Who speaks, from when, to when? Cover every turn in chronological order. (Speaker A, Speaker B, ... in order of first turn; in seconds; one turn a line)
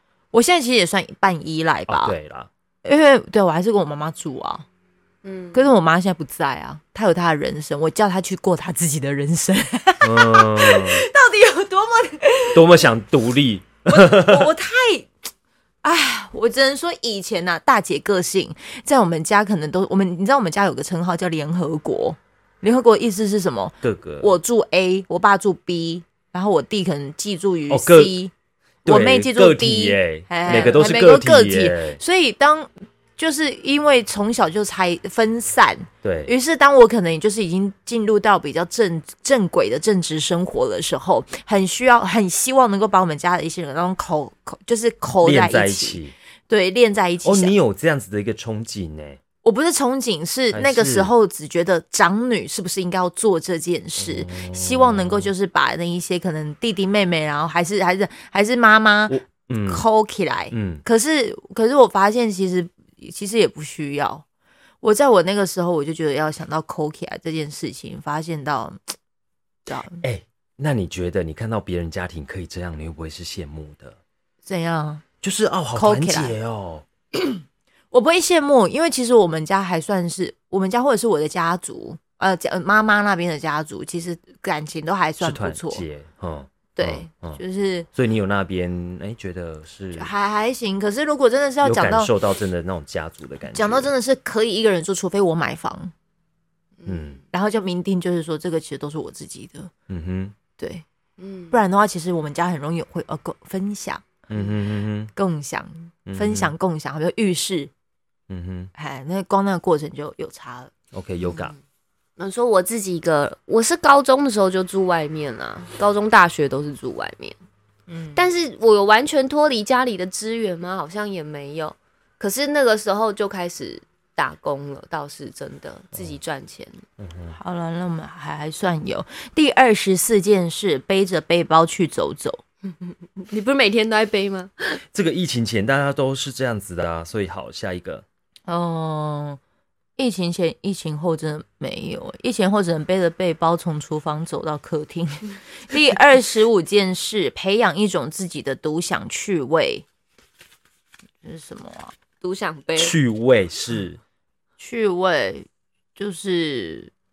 Speaker A: 0.3-2.2
Speaker B: 1.9-2.5
Speaker A: 2.8-4.7
Speaker C: 5.2-5.7
Speaker A: 5.5-12.8
Speaker B: 10.0-11.0
Speaker B: 12.5-14.5
Speaker A: 13.9-15.1
Speaker A: 15.8-28.3
Speaker B: 23.8-24.3
Speaker B: 27.7-28.2
Speaker B: 28.9-32.0
Speaker A: 28.9-47.5
Speaker B: 36.0-36.3
Speaker B: 45.2-46.1
Speaker B: 47.2-49.2
Speaker A: 49.4-64.2
Speaker B: 50.5-51.1
Speaker B: 54.0-55.3
Speaker B: 59.1-59.9
Speaker B: 60.5-60.8
Speaker A: 64.8-68.8
Speaker A: 69.7-70.0
Speaker B: 70.0-74.0
Speaker A: 74.5-75.0
Speaker B: 75.2-76.8
Speaker A: 75.7-76.4
Speaker A: 77.1-85.8
Speaker B: 85.2-87.4
Speaker A: 86.8-87.9
Speaker B: 88.0-90.1
Speaker A: 90.0-92.1
Speaker B: 91.6-93.9
Speaker A: 93.5-95.9
Speaker C: 96.8-97.2
Speaker B: 96.9-97.2
Speaker A: 97.3-99.7
Speaker B: 99.9-100.3
Speaker A: 100.6-100.8
Speaker C: 101.2-101.6
Speaker A: 101.5-104.1
Speaker B: 104.3-105.1
Speaker A: 105.2-107.7
Speaker B: 106.1-106.5
Speaker B: 108.3-108.7
Speaker A: 108.8-110.7
Speaker B: 110.9-111.5
Speaker C: 111.2-111.6
Speaker C: 112.2-117.4
Speaker A: 117.9-118.2
Speaker C: 118.2-126.8
Speaker B: 127.0-127.3
Speaker A: 127.3-132.4
Speaker C: 132.7-134.8
Speaker B: 134.9-138.1
Speaker A: 138.5-139.4
Speaker A: 140.0-149.8
Speaker A: 151.2-151.9
Speaker C: 152.2-153.0
Speaker B: 152.8-154.0
Speaker A: 154.6-156.9